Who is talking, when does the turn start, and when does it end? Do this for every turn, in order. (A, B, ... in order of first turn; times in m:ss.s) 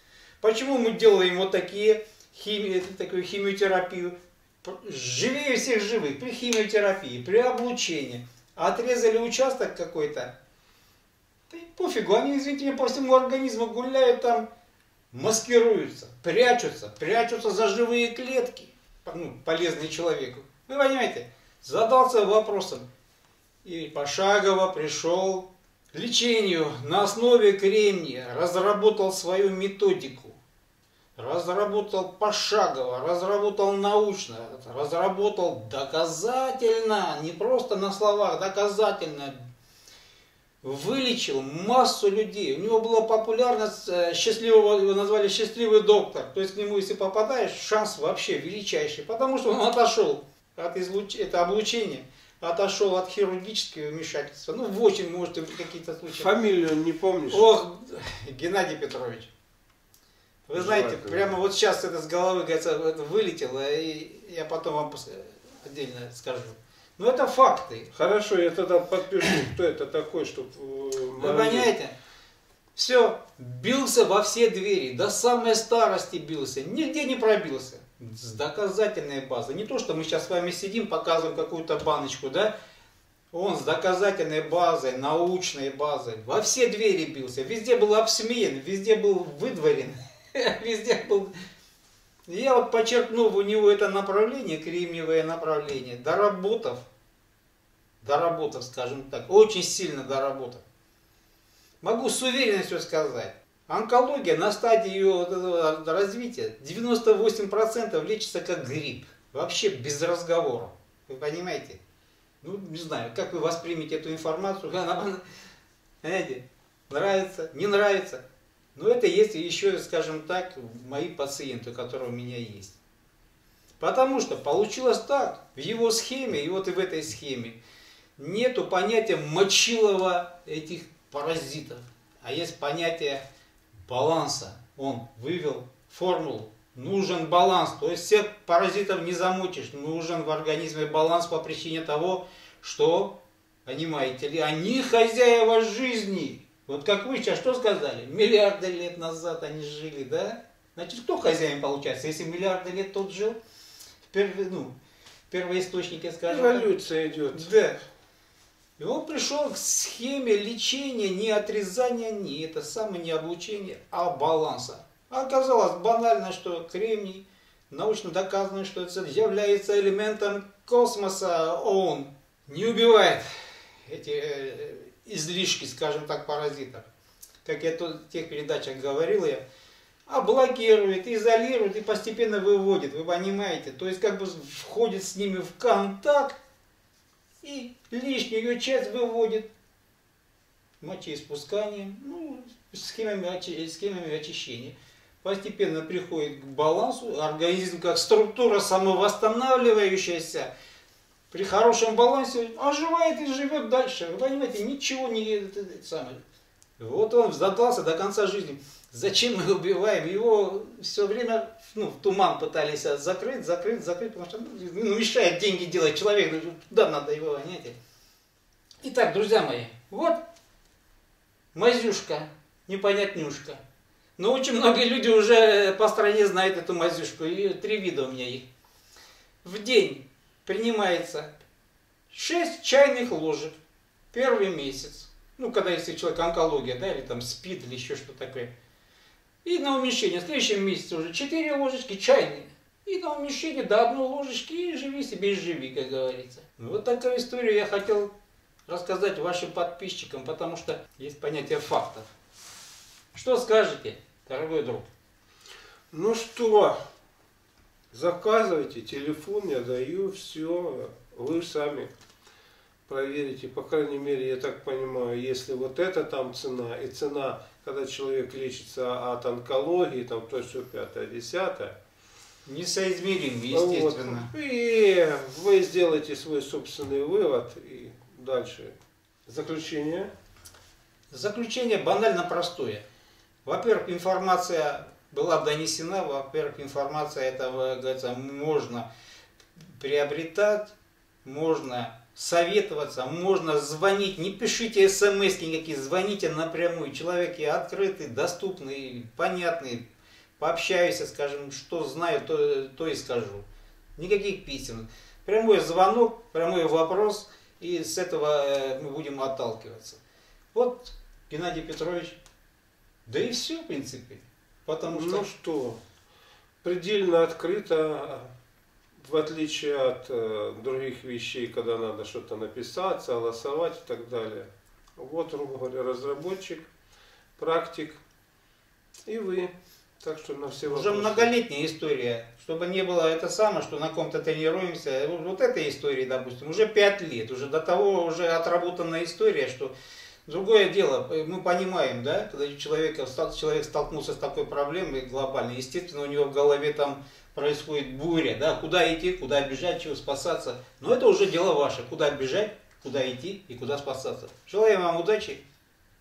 0:00.4-0:10.3 A
0:11.5-0:14.4 A
0:15.1-0:22.8 A
0:23.6-0:30.4 A
0:31.2-0:39.4 A
0:40.6-0:56.3 A
0:56.1-0:57.4 B
0:57.3-0:59.3 A
1:00.5-1:07.9 A
1:00.5-1:01.3 B
1:07.9-1:11.7 B
1:11.2-1:11.9 A
1:12.8-1:22.5 A
1:23.3-1:31.3 A
1:32.3-1:36.8 A
1:38.0-1:40.6 A
1:41.8-1:51.8 A
1:52.4-1:55.2 A
1:56.0-1:58.2 A
1:58.7-2:02.8 A
2:03.8-2:07.6 A
2:08.2-2:13.2 A
2:13.9-2:33.4 A
2:34.1-2:34.8 A
2:35.3-2:36.7 A
2:36.2-2:37.5 B
2:37.3-2:37.8 A
2:38.8-2:53.2 A
2:53.8-2:56.9 A
2:57.4-2:59.4 A
3:00.1-3:06.4 A
3:07.4-3:09.5 A
3:10.8-3:20.5 A
3:21.3-3:26.2 A
3:26.8-3:37.8 A
3:38.8-3:40.2 A
3:41.5-3:43.6 A
3:44.2-3:48.4 A
3:49.4-3:51.3 A
3:52.1-3:53.5 A
3:54.1-3:58.5 A
3:59.4-4:08.1 A
4:08.7-4:12.0 A
4:13.1-4:14.9 A
4:15.9-4:16.8 B
4:17.9-4:21.9 B
4:22.9-4:31.8 B
4:32.4-4:34.3 A
4:33.5-4:38.7 B
4:39.3-4:40.1 B
4:41.1-4:42.8 A
4:43.4-4:48.9 A
4:49.6-4:59.8 A
5:00.4-5:10.0 A
5:10.5-5:12.2 A
5:13.0-5:15.3 A
5:14.9-5:15.8 B
5:16.6-5:18.3 B
5:19.0-5:26.7 B
5:27.4-5:28.0 B
5:29.1-5:31.3 B
5:30.6-5:39.7 A
5:40.2-5:55.4 A